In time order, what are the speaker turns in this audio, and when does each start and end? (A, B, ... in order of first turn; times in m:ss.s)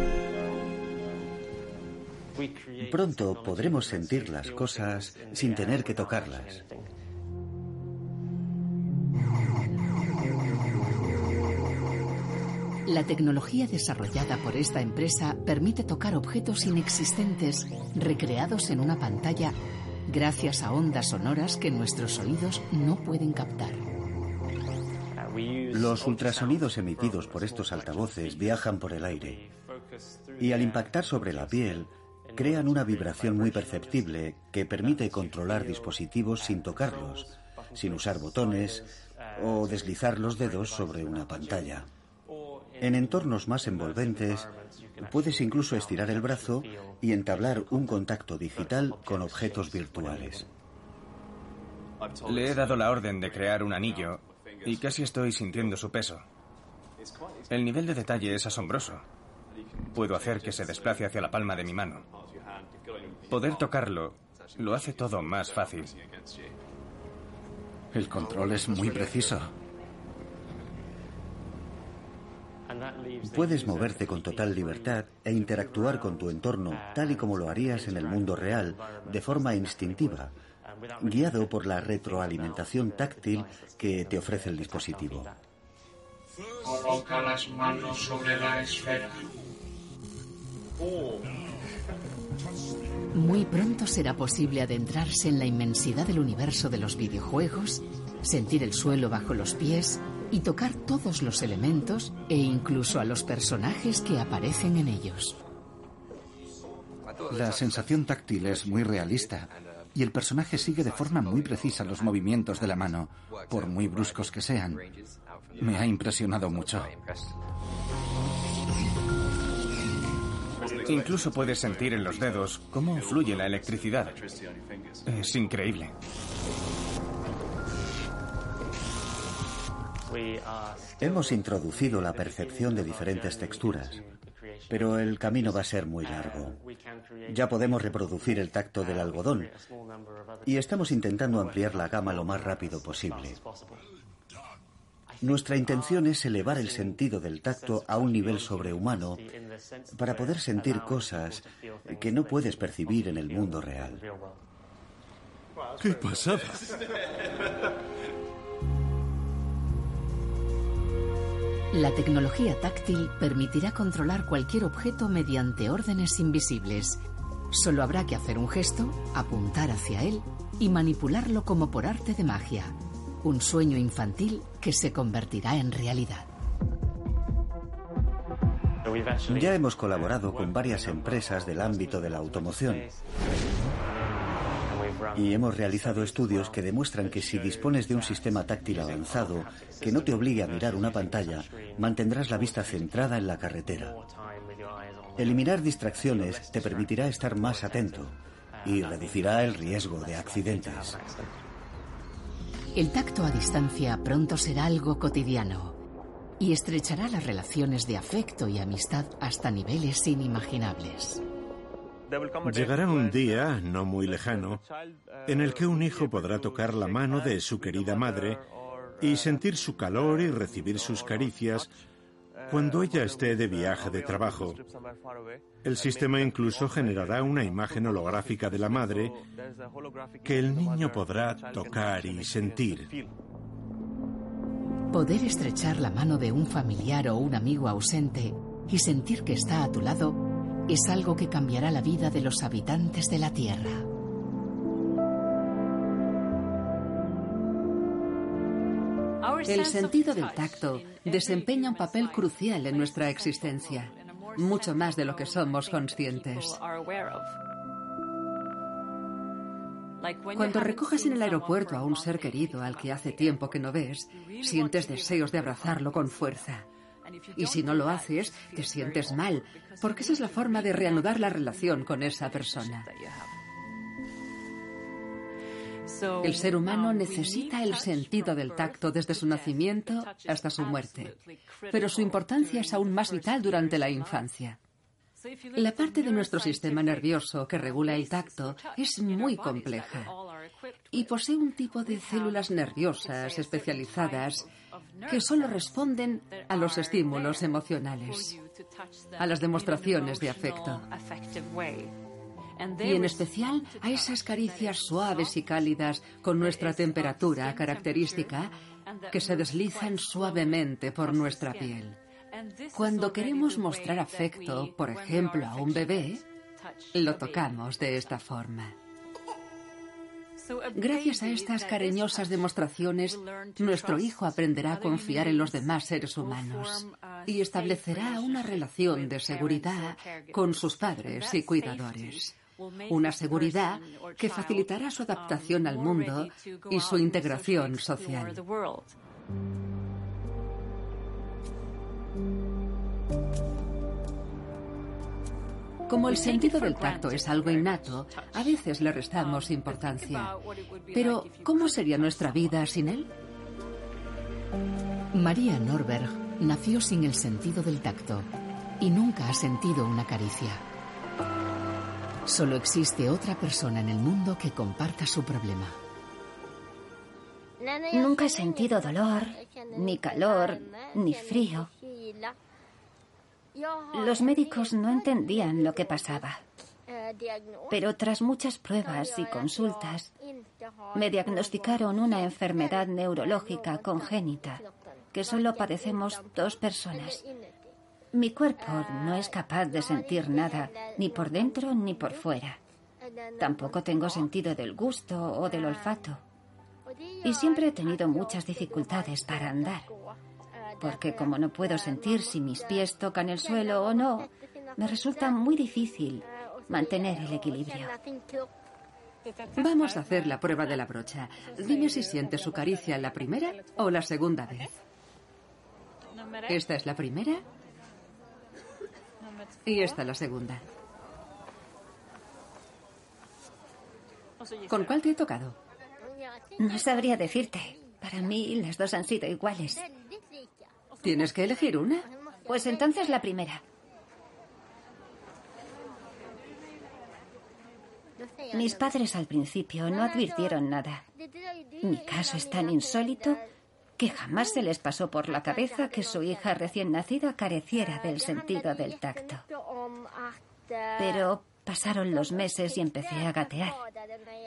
0:02.8-0:06.6 A
0:12.8-0:19.6 B
0:20.1-0:23.8 B
0:25.7-0:29.4 A
0:30.4-0:41.9 A
0:42.8-0:50.4 A
0:52.2-0:56.2 C
0:57.5-0:59.0 C
0:59.9-1:02.0 C
1:03.3-1:05.9 C
1:07.9-1:09.5 D
1:13.2-1:20.3 A
1:21.0-1:25.3 A
1:26.6-1:29.3 E
1:33.1-1:45.4 B
1:47.3-1:54.9 D
1:55.6-1:56.9 D
2:00.8-2:04.2 C
2:05.0-2:05.9 C
2:11.0-2:14.0 A
2:14.7-2:16.6 A
2:17.3-2:19.5 A
2:20.4-2:23.4 A
2:25.2-2:29.2 A
2:29.9-2:34.0 A
2:35.8-2:36.7 F
2:41.7-2:47.0 B
2:47.5-2:56.3 B
2:59.2-3:02.9 A
3:05.1-3:14.0 A
3:15.2-3:21.0 A
3:22.7-3:25.8 B
3:26.4-3:31.2 B
3:32.4-3:34.6 F
3:35.2-3:38.4 F
3:39.0-3:41.7 F
3:42.5-3:44.6 F
3:45.6-3:49.2 F
3:50.2-3:52.9 F
3:54.9-4:03.9 B
4:09.4-4:16.6 G
4:20.3-4:26.6 G
4:27.3-4:32.9 G
4:36.2-4:41.2 G
4:41.7-4:44.6 G
4:45.5-4:50.2 G
4:50.9-4:54.5 G
4:55.0-4:58.4 G
4:59.2-5:00.9 G
5:02.8-5:08.5 G
5:09.1-5:12.0 G
5:12.7-5:16.2 G
5:16.9-5:18.7 G
5:20.7-5:32.3 G
5:32.9-5:38.5 G
5:45.9-5:50.4 G
5:50.9-5:53.1 G
5:55.1-6:00.6 B
6:02.2-6:05.8 B
6:07.9-6:11.7 H
6:13.9-6:16.4 H
6:17.7-6:20.1 H
6:20.9-6:27.2 H
6:28.1-6:32.6 H
6:33.4-6:36.2 H
6:37.2-6:39.9 H
6:40.8-6:48.0 H
6:49.6-6:54.8 G
6:56.5-6:57.4 G
6:59.6-7:00.6 G
7:04.7-7:05.6 G
7:06.6-7:09.8 H
7:11.0-7:12.0 G
7:12.5-7:13.6 H
7:18.5-7:21.0 H
7:21.8-7:23.4 H
7:24.0-7:29.4 H
7:31.0-7:33.8 H